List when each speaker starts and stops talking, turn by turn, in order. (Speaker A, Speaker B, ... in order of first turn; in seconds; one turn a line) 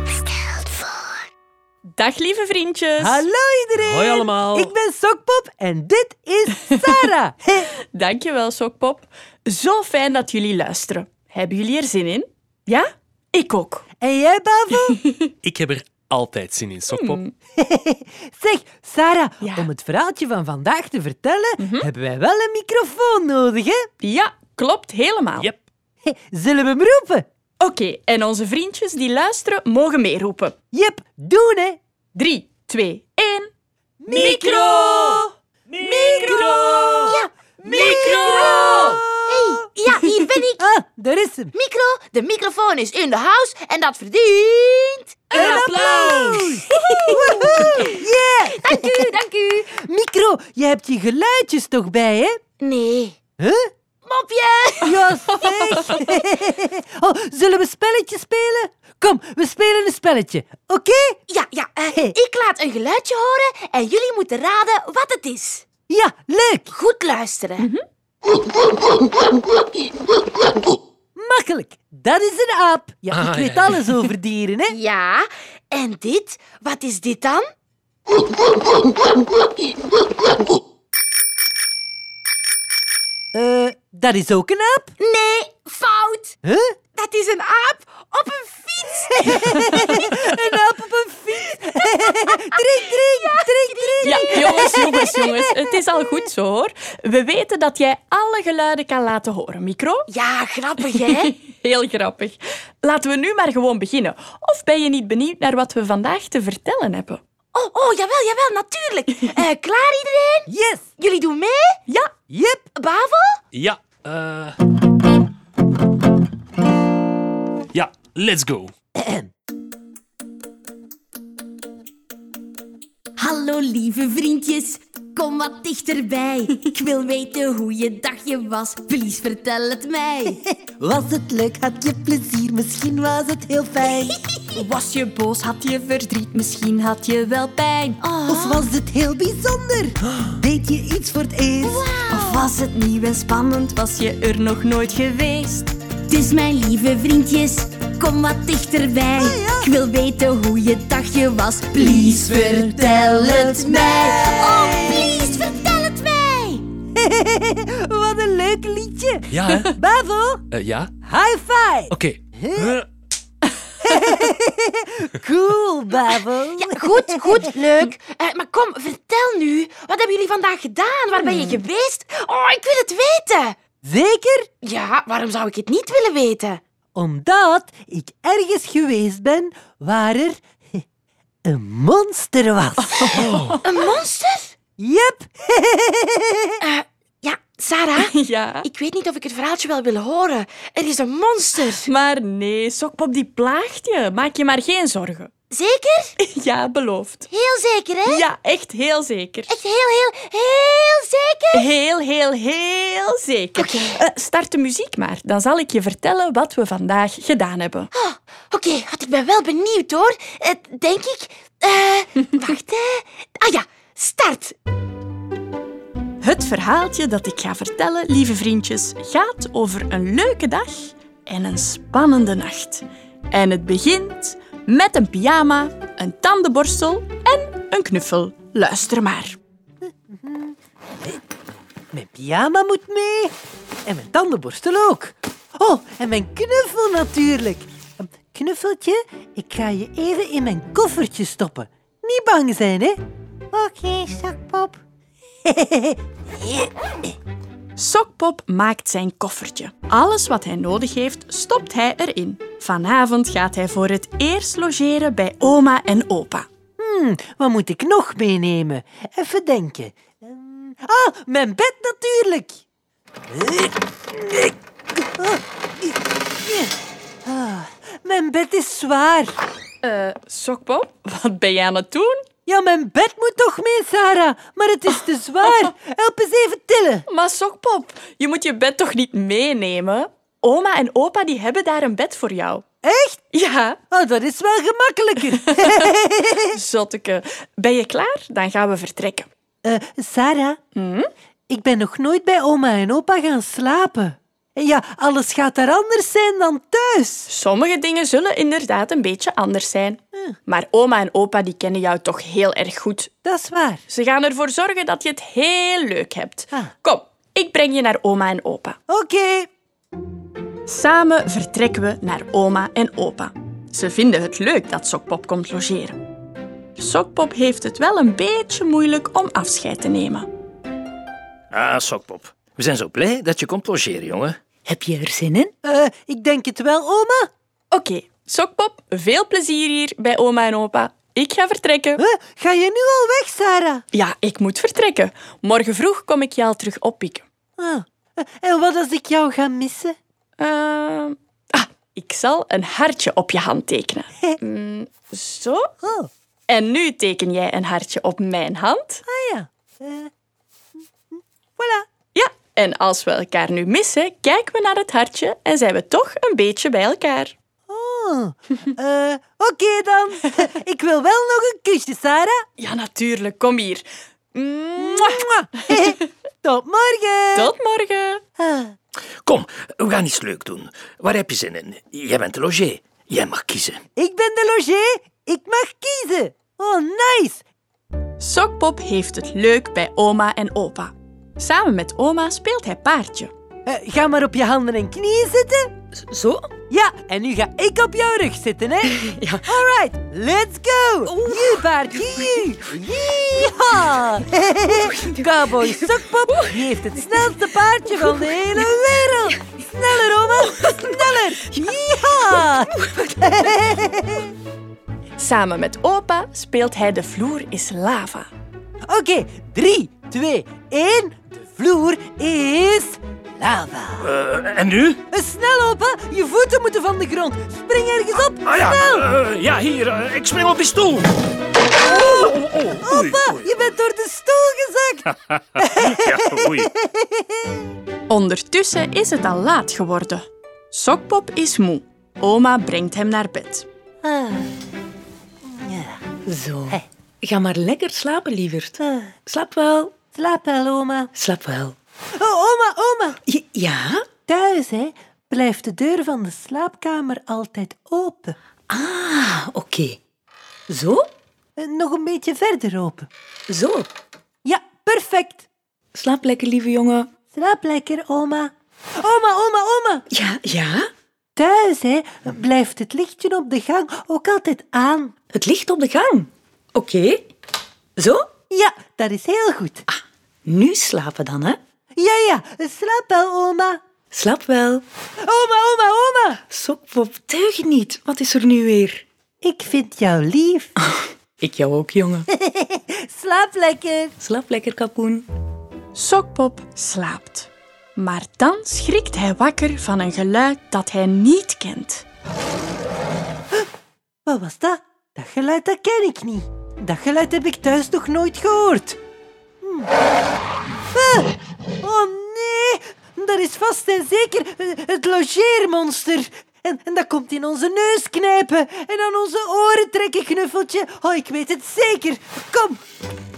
Speaker A: 0.5-1.1
Speaker B: 1.9-3.2
Speaker C: 3.0-7.7
Speaker D: 3.8-4.7
Speaker B: 7.9-13.8
Speaker C: 14.0-15.0
Speaker B: 14.9-15.3
Speaker D: 15.4-17.2
Speaker B: 16.9-17.3
Speaker C: 17.6-23.9
Speaker B: 19.4-19.7
Speaker B: 21.6-21.9
Speaker B: 24.0-25.5
Speaker C: 26.0-27.2
Speaker B: 27.6-30.6
Speaker C: 30.7-31.8
Speaker B: 32.1-33.5
Speaker C: 34.0-34.9
Speaker D: 34.1-39.0
Speaker B: 34.2-35.2
Speaker B: 35.9-36.8
Speaker A: 37.0-40.6
Speaker C: 37.6-39.6
Speaker C: 40.6-41.5
Speaker A: 41.5-45.5
Speaker B: 45.3-47.8
Speaker C: 45.3-49.1
Speaker D: 45.4-46.3
Speaker A: 48.5-49.7
Speaker C: 49.8-52.4
Speaker A: 52.6-53.2
Speaker C: 53.4-53.7
Speaker A: 54.0-55.0
Speaker C: 54.8-61.2
Speaker B: 55.4-56.0
Speaker A: 61.3-65.6
Speaker C: 65.9-66.7
Speaker A: 66.7-67.7
Speaker C: 71.2-74.8
Speaker D: 73.1-74.0
Speaker A: 74.7-77.5
Speaker C: 83.3-85.0
Speaker A: 85.0-86.3
Speaker C: 86.4-86.8
Speaker A: 87.0-90.1
Speaker C: 89.2-95.1
Speaker A: 91.9-92.6
Speaker A: 93.2-95.1
Speaker B: 94.0-100.1
Speaker A: 100.1-101.3
Speaker B: 101.3-107.2
Speaker A: 107.5-111.8
Speaker C: 110.5-110.9
Speaker C: 112.3-112.7
Speaker A: 112.8-113.4
Speaker D: 113.5-114.6
Speaker D: 117.7-118.7
Speaker C: 119.0-119.3
Speaker E: 123.2-130.1
Speaker C: 130.2-134.2
Speaker B: 134.5-138.0
Speaker A: 138.1-138.7
Speaker C: 138.2-141.8
Speaker A: 141.6-142.5
Speaker B: 142.1-145.7
Speaker E: 146.1-154.3
Speaker C: 149.1-149.7
Speaker C: 151.8-155.5
Speaker A: 154.4-156.6
Speaker C: 157.0-160.4
Speaker D: 159.3-159.7
Speaker D: 160.5-160.9
Speaker C: 161.0-162.8
Speaker D: 161.9-162.8
Speaker C: 163.8-167.8
Speaker A: 166.6-173.6
Speaker C: 173.8-174.5
Speaker A: 174.6-176.6
Speaker C: 176.9-180.8
Speaker C: 181.4-183.3
Speaker B: 182.8-183.6
Speaker D: 183.2-183.6
Speaker A: 183.6-184.6
Speaker C: 184.8-186.6
Speaker A: 186.6-188.1
Speaker B: 188.0-188.7
Speaker A: 188.6-191.8
Speaker B: 191.7-195.3
Speaker A: 195.5-196.1
Speaker B: 196.2-197.3
Speaker A: 197.3-198.2
Speaker B: 198.1-199.6
Speaker A: 199.5-201.6
Speaker B: 201.5-207.9
Speaker A: 203.6-204.0
Speaker A: 207.9-214.6
Speaker B: 216.2-229.4
Speaker C: 230.1-231.2
Speaker C: 231.9-233.3
Speaker C: 233.9-243.0
Speaker C: 243.5-244.8
Speaker C: 245.4-246.7
Speaker B: 247.8-256.5
Speaker C: 256.8-262.6
Speaker C: 263.3-266.7
Speaker C: 267.2-269.4
Speaker B: 269.8-272.2
Speaker C: 272.5-277.1
Speaker B: 277.1-282.6
Speaker C: 282.8-283.2
Speaker B: 283.3-283.8
Speaker C: 283.9-286.5
Speaker B: 285.4-285.9
Speaker B: 286.5-289.3
Speaker C: 289.6-290.6
Speaker B: 290.8-291.1
Speaker C: 291.5-297.3
Speaker B: 297.3-303.1
Speaker C: 303.2-303.8
Speaker B: 303.9-308.8
Speaker C: 308.9-309.5
Speaker B: 310.7-316.0
Speaker B: 316.8-320.3
Speaker F: 321.5-324.4
Speaker G: 324.7-325.5
Speaker C: 325.6-327.3
Speaker B: 327.7-332.0
Speaker C: 332.0-333.8
Speaker B: 333.9-337.3
Speaker C: 337.6-340.0
Speaker B: 340.4-345.7
Speaker C: 345.8-346.1
Speaker B: 346.5-349.0
Speaker C: 349.1-350.1
Speaker C: 351.6-351.9
Speaker B: 352.1-357.4
Speaker C: 357.7-362.4
Speaker B: 362.6-365.2
Speaker C: 364.8-367.5
Speaker B: 367.4-368.2
Speaker C: 368.4-368.8
Speaker F: 369.2-373.8
Speaker C: 374.0-377.4
Speaker B: 378.2-383.3
Speaker C: 383.7-385.7
Speaker G: 385.9-386.5
Speaker C: 386.7-404.3
Speaker G: 389.0-389.5
Speaker G: 391.1-391.6
Speaker G: 394.9-397.3
Speaker G: 397.9-398.7
Speaker G: 400.4-403.5
Speaker B: 405.2-408.3
Speaker C: 408.9-414.1
Speaker F: 414.0-415.0
Speaker C: 415.1-419.1
Speaker F: 418.5-421.2
Speaker C: 421.8-425.1
Speaker F: 421.8-423.5
Speaker F: 425.6-426.7
Speaker C: 425.6-427.6
Speaker B: 428.1-433.7
Speaker C: 434.0-434.5
Speaker C: 435.5-436.1
Speaker G: 436.3-439.9
Speaker C: 438.8-439.1
Speaker C: 440.1-441.1
Speaker G: 441.1-441.8
Speaker C: 442.2-443.2
Speaker G: 443.3-444.1
Speaker C: 444.3-448.4
Speaker G: 448.7-450.0
Speaker G: 450.7-451.1
Speaker C: 451.6-453.1
Speaker G: 453.5-453.9
Speaker C: 454.4-455.5
Speaker G: 455.9-457.1
Speaker C: 457.3-460.1
Speaker G: 460.1-460.9
Speaker C: 461.4-465.1
Speaker G: 465.3-467.3
Speaker G: 468.0-468.3
Speaker C: 468.5-469.9
Speaker G: 469.9-471.6
Speaker C: 472.0-473.8
Speaker G: 474.1-474.8
Speaker C: 475.2-476.4
Speaker G: 476.5-479.0
Speaker C: 479.4-480.7
Speaker G: 480.8-482.3
Speaker C: 482.3-484.1
Speaker G: 484.2-485.3
Speaker B: 485.9-492.1
Speaker C: 494.3-499.0
Speaker C: 499.6-499.9
Speaker C: 500.9-512.8